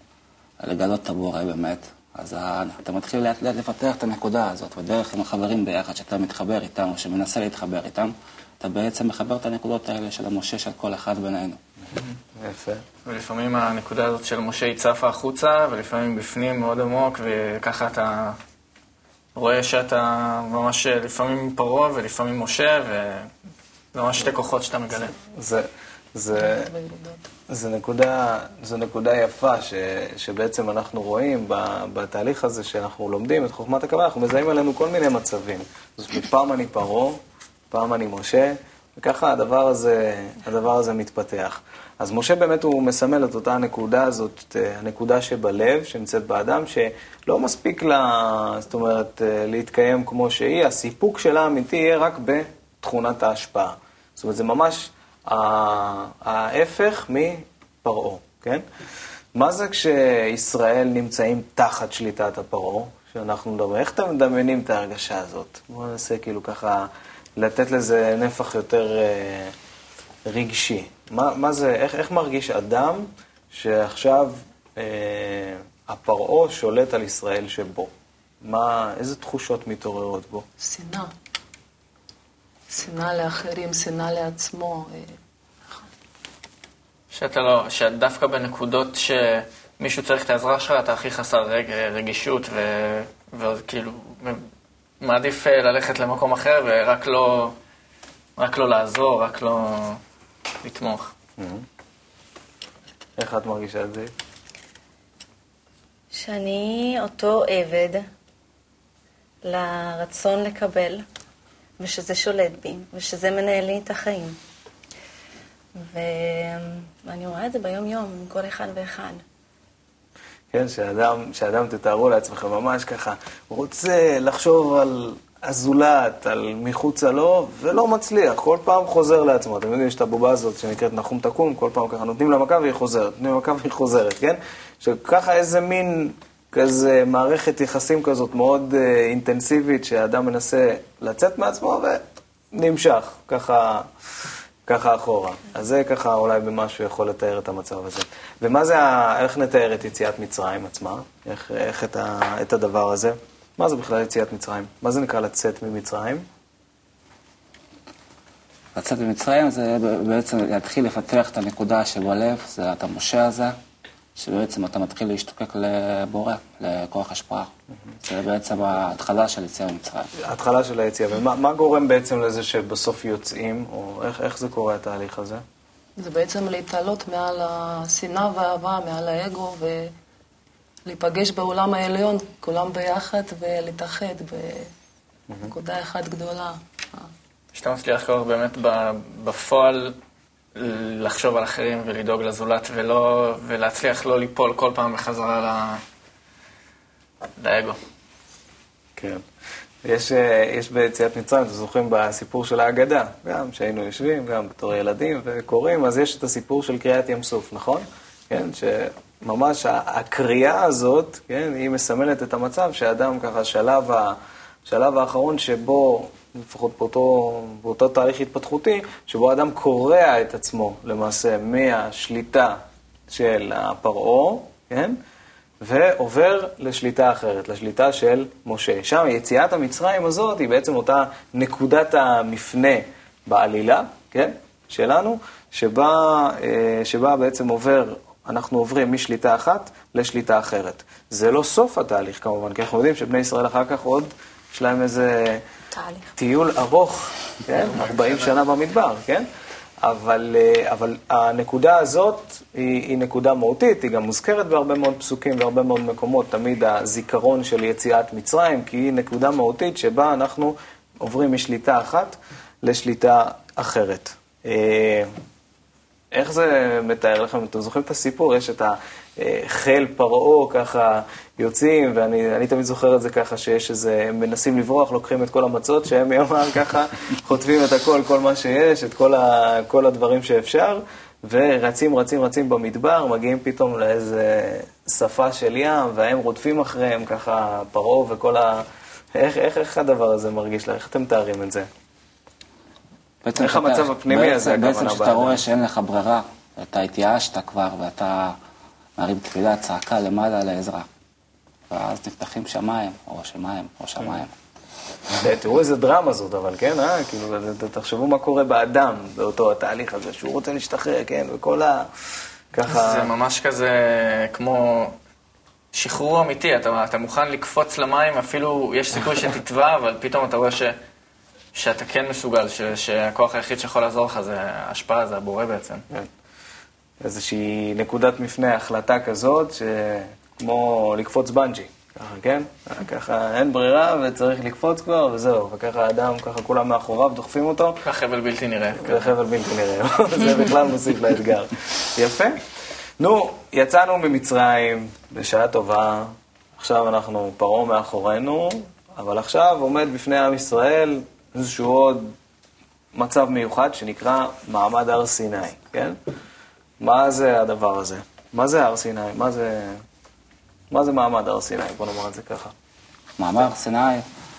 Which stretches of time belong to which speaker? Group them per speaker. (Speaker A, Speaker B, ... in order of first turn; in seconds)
Speaker A: 0.6-11.6, 158.8-163.6, 164.2-167.5, 168.1-170.1, 293.2-298.4, 299.0-300.9, 301.7-304.3, 363.2-364.0
Speaker B: 11.9-12.8, 25.0-26.7, 27.5-37.2, 37.7-58.6, 59.4-69.5, 70.3-77.9, 78.4-80.5, 101.4-101.7, 103.2-104.1, 120.5-143.9, 144.7-156.3, 170.2-175.4, 199.0-199.2, 199.8-222.6, 223.1-225.0, 225.6-245.4, 246.2-249.3, 249.8-265.1, 266.1-291.7, 293.4-295.4, 305.2-311.9, 312.5-313.1, 327.0-337.8, 338.8-342.4, 343.0-352.1, 352.9-356.0, 356.8-359.8, 360.7-362.5
Speaker C: 13.1-18.4, 19.4-23.3, 23.9-25.1, 87.1-94.4, 95.0-97.6, 98.4-100.0, 100.6-101.1, 187.5-190.0, 190.6-195.8, 197.4-197.8, 247.6-248.4, 312.7-315.0, 315.7-320.8, 321.5-325.9, 337.9-339.1
Speaker D: 26.3-27.3, 80.6-81.1, 82.7-85.2, 176.0-179.9, 180.9-184.7, 185.5-187.1
Speaker E: 106.1-108.0, 109.4-111.0, 111.8-114.4, 115.8-119.2, 245.7-246.1